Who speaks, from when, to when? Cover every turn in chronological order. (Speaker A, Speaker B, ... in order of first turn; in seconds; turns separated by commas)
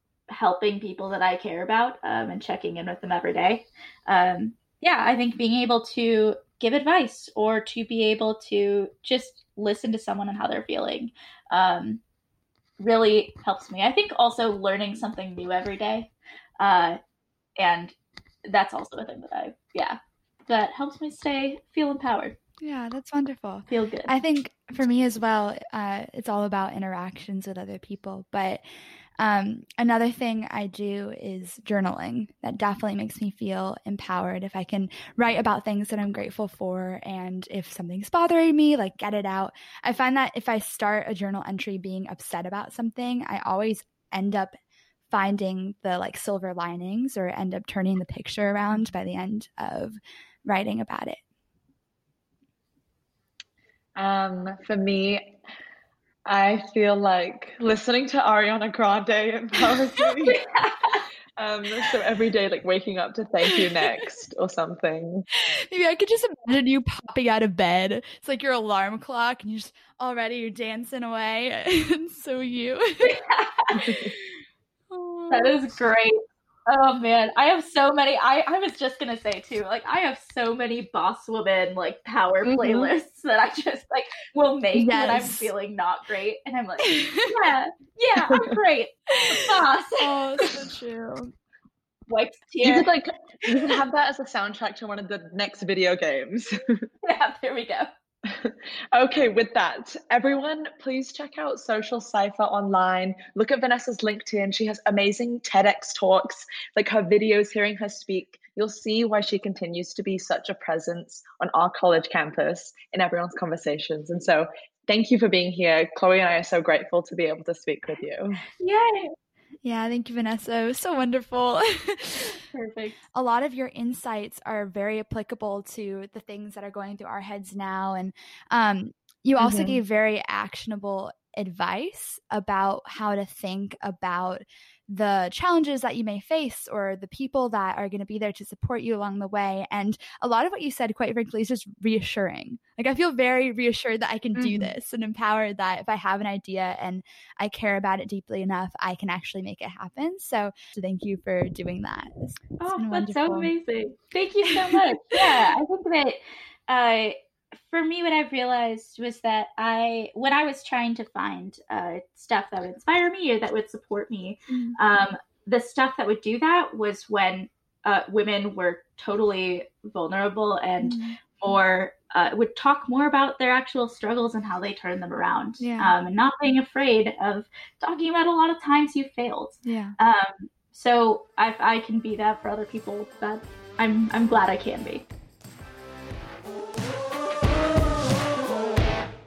Speaker A: 0.3-12.0, Speaker A: 12.8-17.0, Speaker A: 17.6-17.9, Speaker A: 18.4-22.4, Speaker B: 22.6-28.6, Speaker A: 23.7-24.1, Speaker B: 29.2-44.5, Speaker B: 45.1-51.2, Speaker C: 54.0-55.3, Speaker C: 56.2-60.4, Speaker A: 60.2-61.0, Speaker C: 61.4-65.3, Speaker B: 65.4-73.2, Speaker A: 73.0-74.0, Speaker C: 73.8-74.1, Speaker B: 74.9-75.5, Speaker A: 75.3-90.5, Speaker B: 82.5-82.8, Speaker B: 84.7-85.5, Speaker B: 86.9-87.2, Speaker B: 90.0-91.3, Speaker A: 92.1-92.9, Speaker C: 92.6-96.9, Speaker A: 93.5-93.8, Speaker A: 97.0-97.9, Speaker C: 98.2-118.4, Speaker A: 118.6-119.1, Speaker B: 119.6-122.4, Speaker A: 122.5-123.0, Speaker B: 123.1-153.5, Speaker A: 129.4-129.7, Speaker A: 144.3-144.7, Speaker A: 152.6-185.1, Speaker B: 154.6-155.5, Speaker B: 164.5-164.8, Speaker B: 170.8-171.2, Speaker B: 175.6-175.9, Speaker B: 179.6-179.9